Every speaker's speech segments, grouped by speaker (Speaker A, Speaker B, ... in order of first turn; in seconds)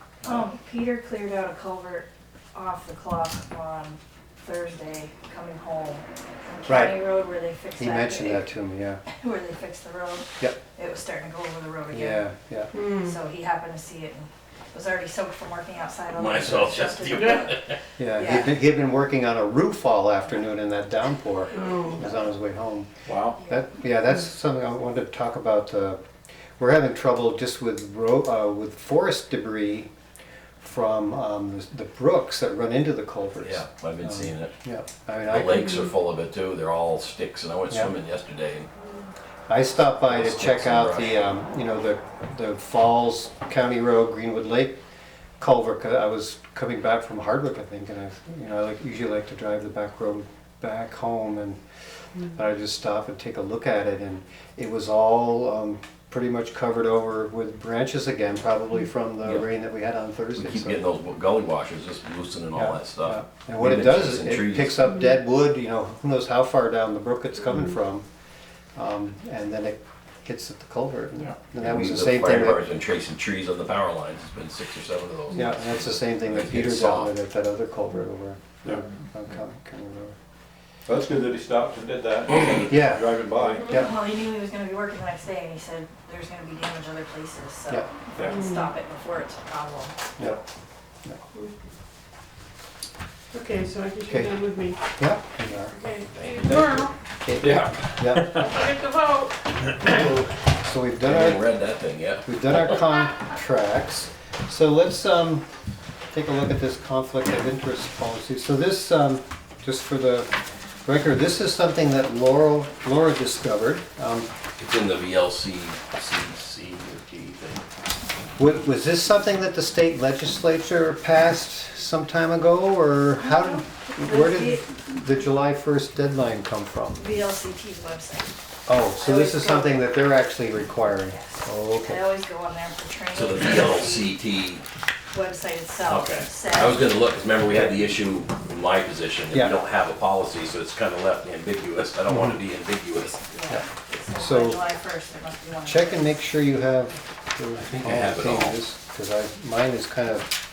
Speaker A: 0.2-8.5, 9.1-12.3, 13.0-18.6, 21.8-22.1, 83.7-90.2, 123.3-124.7, 127.0-128.4, 128.9-129.9, 131.1-134.1, 135.1-136.9, 143.3-146.0
Speaker B: 6.7-7.0, 7.8-9.0, 11.9-12.7, 18.0-26.0, 26.6-29.9, 30.6-35.7, 39.5-44.8, 45.4-51.6, 52.3-60.8, 62.5-68.0, 68.7-72.6, 75.3-80.2, 82.7-83.9, 94.1-95.8, 97.2-98.3, 99.8-101.4, 102.2-105.5, 106.1-110.3, 110.8-114.3, 118.4-127.0, 128.7-132.0, 142.1-142.3, 144.1-144.6, 145.7-150.3
Speaker C: 12.7-13.2, 21.5-22.0, 83.4-83.8, 88.3-88.7, 93.3-94.8, 95.7-96.9, 98.3-99.5
Speaker D: 16.1-17.8, 33.4-34.5, 35.2-38.7, 40.1-41.2, 60.4-64.8, 71.6-77.1, 101.0-102.8, 114.6-117.6, 133.1-134.6, 135.8-143.2, 147.6-148.6
Speaker E: 23.1-23.4, 80.8-83.8, 96.4-96.9, 97.4-98.5